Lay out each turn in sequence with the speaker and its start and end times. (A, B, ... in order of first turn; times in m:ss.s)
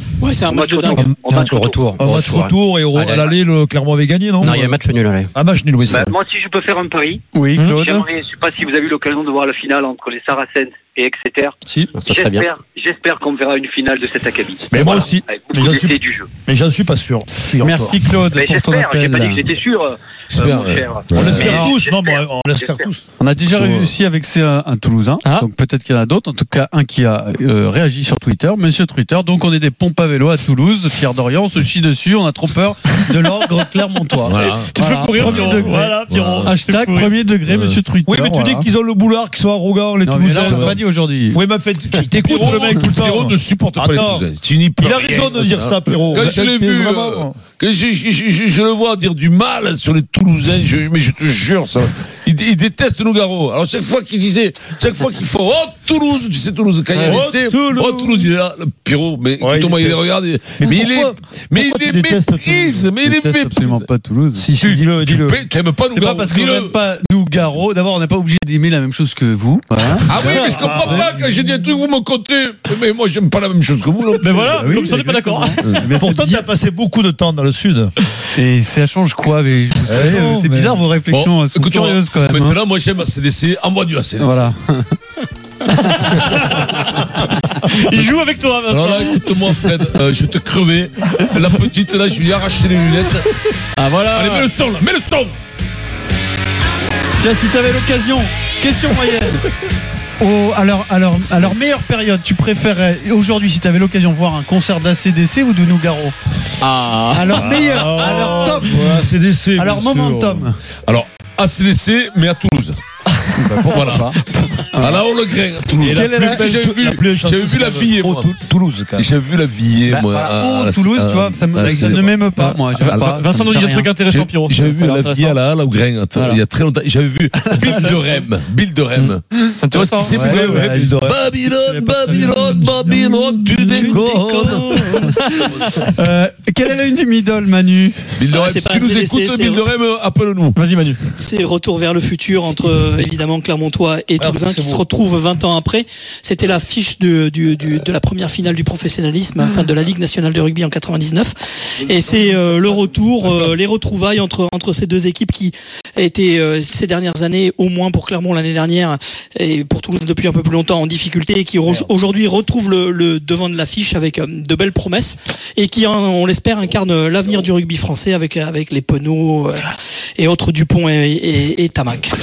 0:00.2-0:01.1 A
0:00.5-0:01.8 B
0:00.9-0:04.7 C
0:01.3-0:03.3 D
0:04.4-0:05.3 D
0:05.3-0:06.1 C
0:05.9-0:16.3 B
0:07.3-0:08.1 E
0:12.0-0:12.5 D
0:14.7-0:18.0 C
0:17.5-0:19.5 E
0:18.3-0:22.9 B
0:20.3-0:21.7 F
0:21.2-0:23.9 C
0:23.2-0:38.7 E
0:34.2-0:36.6 F
0:34.8-0:37.1 G
0:37.5-0:37.8 F
0:38.1-0:44.3 C
0:40.0-0:41.4 E
0:40.4-0:40.8 F
0:42.2-1:03.9 F
0:44.8-0:47.4 C
0:57.0-0:58.3 C
0:57.0-0:57.3 E
0:59.4-1:00.0 C
1:00.6-1:02.9 C
1:03.0-1:04.4 E
1:04.4-1:05.4 C
1:04.6-1:06.8 F
1:05.9-1:11.2 E
1:10.1-1:14.4 F
1:10.2-1:11.2 C
1:14.2-1:15.6 G
1:14.4-1:16.5 E
1:14.4-1:15.0 C
1:16.0-1:17.9 C
1:18.4-1:22.6 E
1:19.9-1:20.8 C
1:21.1-1:24.5 F
1:24.2-1:24.9 E
1:25.7-1:27.1 E
1:26.1-1:26.5 G
1:27.7-1:29.0 G
1:28.6-1:33.4 F
1:33.8-1:34.5 E
1:34.1-1:35.3 F
1:37.2-1:39.4 E
1:40.2-1:46.2 E
1:46.6-1:47.4 G
1:47.1-1:49.1 E
1:47.3-1:50.5 C
1:49.6-1:50.6 E
1:50.9-1:52.8 F
1:53.4-1:55.0 E
1:53.4-1:54.2 F
1:54.8-1:58.3 F
1:55.8-1:56.6 E
1:55.8-1:59.1 C
1:58.9-2:02.3 F
1:59.9-2:03.9 E
2:02.4-2:05.4 G
2:02.8-2:15.9 F
2:09.0-2:10.1 G
2:10.1-2:11.2 C
2:10.1-2:13.0 E
2:13.6-2:15.2 A
2:14.0-2:14.5 C
2:15.7-2:18.0 E
2:18.2-2:20.7 F
2:18.3-2:19.6 A
2:20.6-2:21.1 G
2:21.2-2:52.1 A
2:24.2-2:24.8 C